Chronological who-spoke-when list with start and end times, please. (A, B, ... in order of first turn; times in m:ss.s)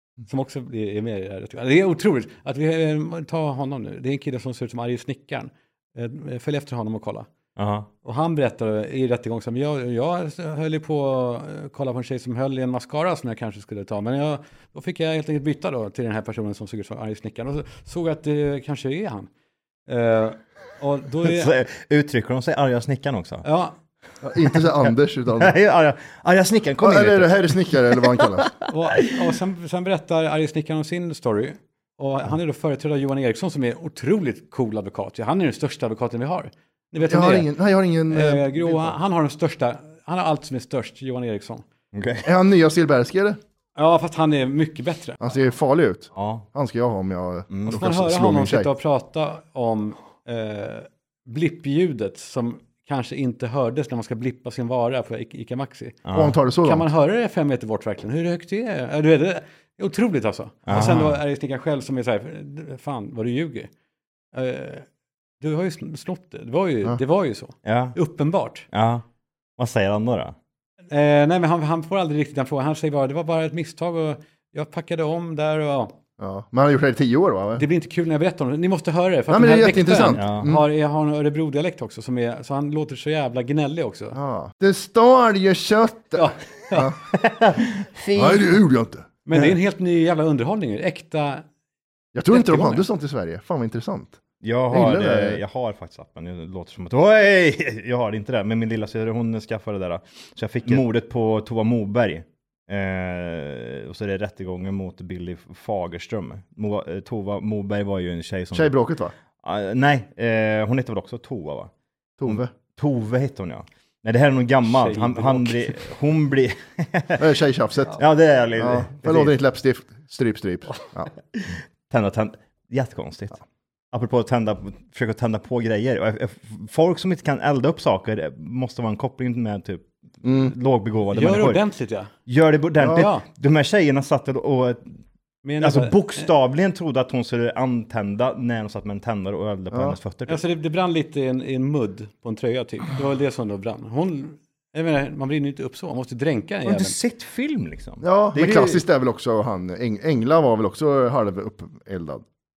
0:00.2-0:07.3 A
0:07.6-0:07.9 B
0:08.0-0:19.3 A
0:19.9-0:21.5 A
0:21.2-0:23.4 B
0:23.4-0:23.7 A
0:24.2-0:25.5 C
0:25.4-0:29.2 B
0:26.8-0:28.5 C
0:28.7-0:37.5 A
0:37.1-0:39.0 C
0:38.1-0:41.6 A
0:41.9-0:42.3 B
0:42.2-0:43.4 C
0:43.8-0:45.2 A
0:45.2-0:48.7 C
0:46.2-0:46.4 B
0:47.5-0:47.8 B
0:47.7-0:56.0 A
0:56.0-0:56.4 B
0:56.1-0:56.9 C
0:56.6-1:03.7 A
1:00.7-1:01.2 B
1:04.3-1:04.9 A
1:05.4-1:08.7 A
1:07.6-1:08.0 B
1:08.7-1:09.0 B
1:09.6-1:10.3 B
1:10.9-1:15.9 A
1:16.2-1:17.6 C
1:17.6-1:24.2 A
1:19.3-1:20.6 C
1:20.0-1:20.5 B
1:24.1-1:27.0 C
1:26.1-1:26.9 A
1:27.1-1:28.6 B
1:28.1-1:29.4 C
1:29.2-1:31.4 A
1:32.1-1:35.4 C
1:32.3-1:32.8 A
1:34.4-1:48.8 B
1:48.5-1:49.1 C
1:49.4-1:51.7 B
1:52.2-1:52.5 C
1:52.2-1:57.3 B
1:54.7-1:55.7 A
1:57.2-1:58.0 C
1:58.0-1:59.3 B
1:58.6-2:01.1 C
2:01.3-2:03.4 B
2:03.9-2:11.6 B
2:10.2-2:10.5 C
2:11.1-2:12.1 A
2:12.2-2:15.0 B
2:12.8-2:13.1 C
2:12.9-2:13.2 A
2:15.4-2:16.3 A
2:15.6-2:20.4 B
2:19.7-2:20.0 C
2:20.3-2:27.0 A
2:26.6-2:28.8 B
2:28.0-2:32.2 C